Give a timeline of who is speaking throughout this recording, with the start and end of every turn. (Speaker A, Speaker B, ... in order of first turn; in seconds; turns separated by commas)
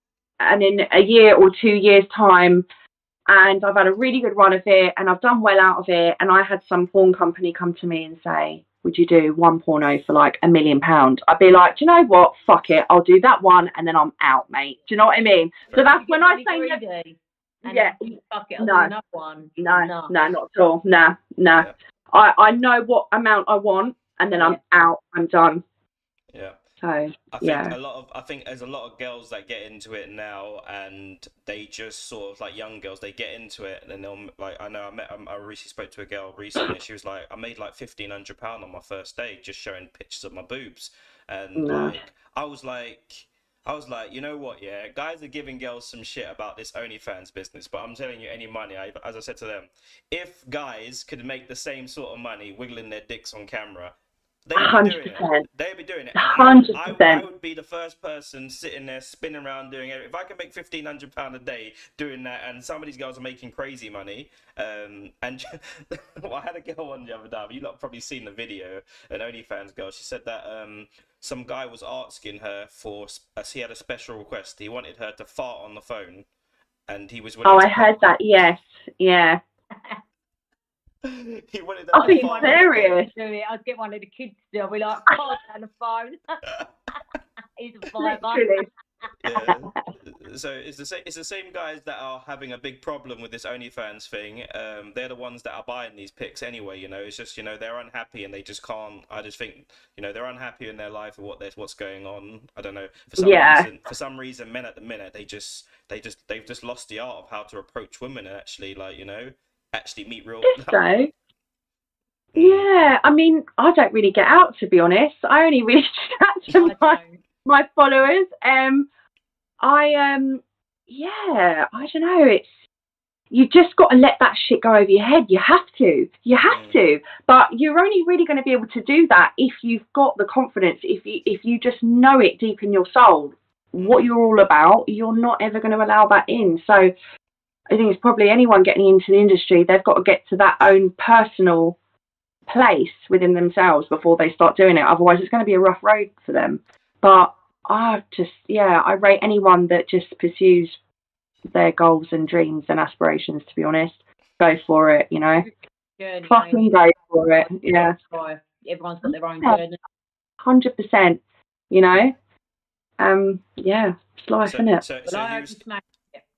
Speaker A: 0.4-2.6, Speaker A: 3.3-16.8, Speaker B: 15.9-20.2, Speaker A: 17.6-18.9, Speaker A: 19.6-25.6, Speaker C: 26.3-26.6, Speaker A: 26.8-27.7, Speaker C: 27.3-53.9, Speaker A: 41.6-42.0, Speaker C: 54.4-76.2, Speaker A: 54.5-55.5, Speaker A: 56.1-57.2, Speaker C: 76.9-78.0, Speaker A: 77.4-79.4, Speaker B: 79.7-80.0, Speaker C: 81.0-83.0, Speaker A: 81.9-83.1, Speaker B: 82.0-86.4, Speaker B: 87.6-89.1, Speaker A: 88.0-88.7, Speaker C: 89.2-111.0, Speaker A: 103.2-103.7, Speaker A: 110.4-111.1, Speaker C: 112.3-112.7, Speaker A: 112.3-118.9, Speaker B: 116.6-117.2, Speaker A: 119.6-122.5, Speaker A: 123.3-136.9, Speaker C: 126.4-126.8, Speaker C: 133.8-134.1, Speaker A: 137.7-141.8, Speaker A: 142.5-150.8, Speaker A: 151.5-155.5, Speaker B: 155.4-156.7, Speaker A: 156.2-157.9, Speaker B: 157.4-159.8, Speaker A: 159.1-159.6, Speaker A: 160.4-161.2, Speaker A: 161.7-162.1, Speaker A: 163.0-164.8, Speaker C: 164.4-165.6, Speaker B: 165.1-166.2